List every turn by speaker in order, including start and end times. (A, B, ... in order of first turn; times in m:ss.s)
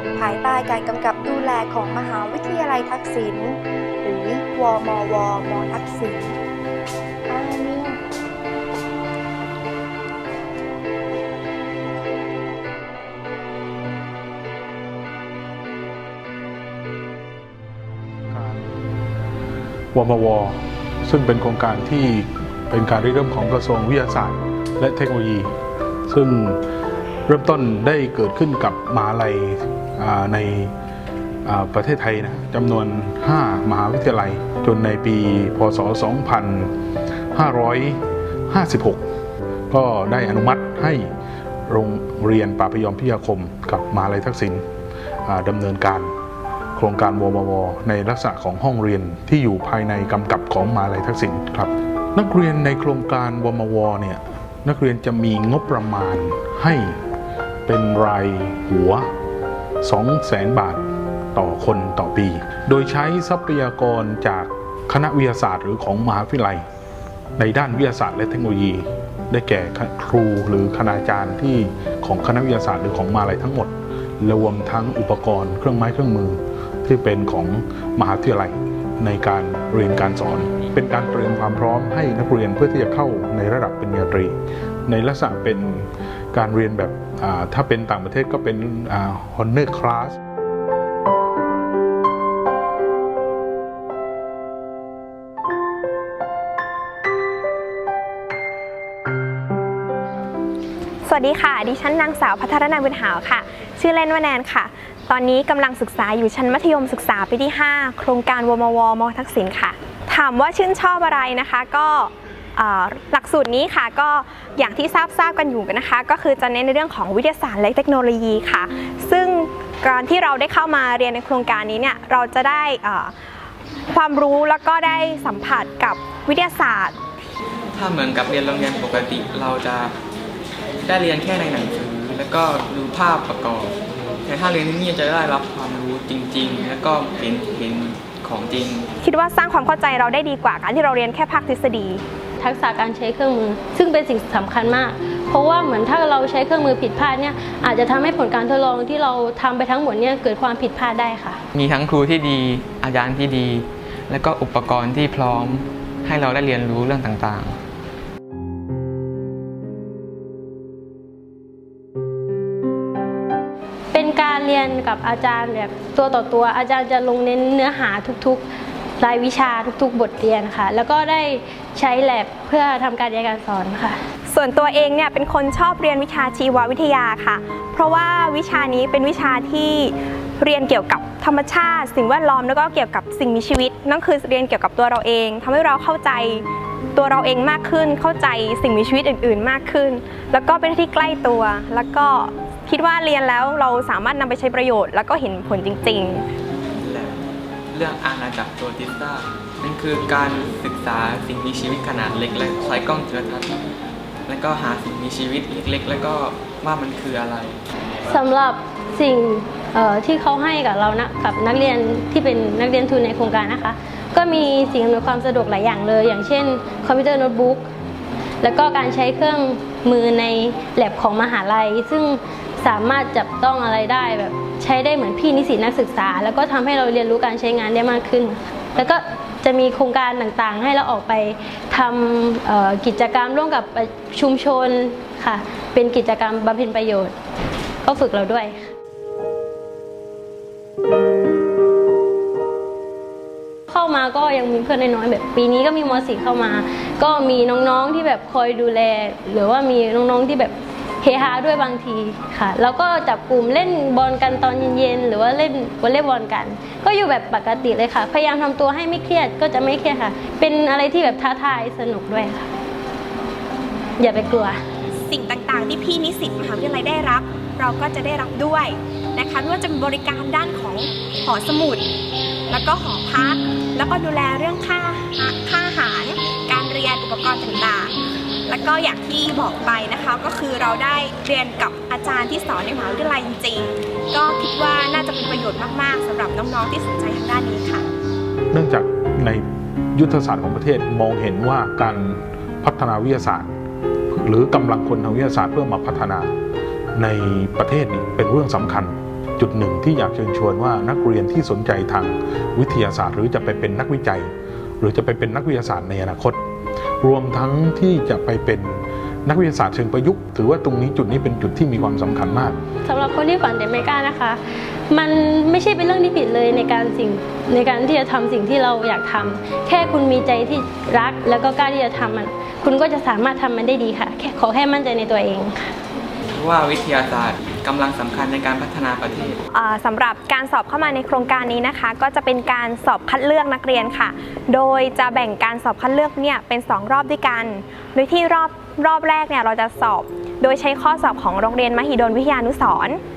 0:00.2-0:06.4 A
0:07.3-0:08.0 A
0:18.3-0:18.7 B
0:19.9-0:25.5 B
0:26.1-0:26.6 B
0:27.3-0:30.7 B
0:31.4-0:36.7 B
0:37.3-0:39.0 B
0:39.7-0:41.1 B
0:41.7-0:44.6 B
0:45.2-0:46.1 B
0:46.8-0:57.0 B
0:57.7-0:59.0 B
0:59.8-1:00.8 B
1:01.3-1:06.6 B
1:07.4-1:24.4 B
1:24.9-1:30.2 B
1:41.0-2:03.1 C
2:03.9-2:07.0 C
2:07.7-2:09.9 D
2:10.8-2:13.7 D
2:14.2-2:18.9 D
2:19.0-2:22.0 C
2:22.4-2:31.4 E
2:31.5-2:37.6 D
2:43.9-2:48.4 E
2:49.0-2:54.0 E
2:54.3-3:16.3 C
3:16.8-3:23.6 D
3:24.3-3:27.6 D
3:28.0-3:37.7 E
3:38.4-3:57.1 E
3:57.8-3:58.7 E
4:03.7-4:22.5 E
4:24.0-4:24.6 E
4:25.0-4:31.9 C
4:32.5-4:37.9 C
4:38.5-4:47.9 C
4:48.5-4:49.4 B
4:49.9-4:53.5 B
4:54.1-4:56.3 B
4:57.0-5:06.4 B
5:07.0-5:12.6 B
5:12.8-5:25.7 E
5:26.3-5:29.4 D
5:29.5-5:43.0 C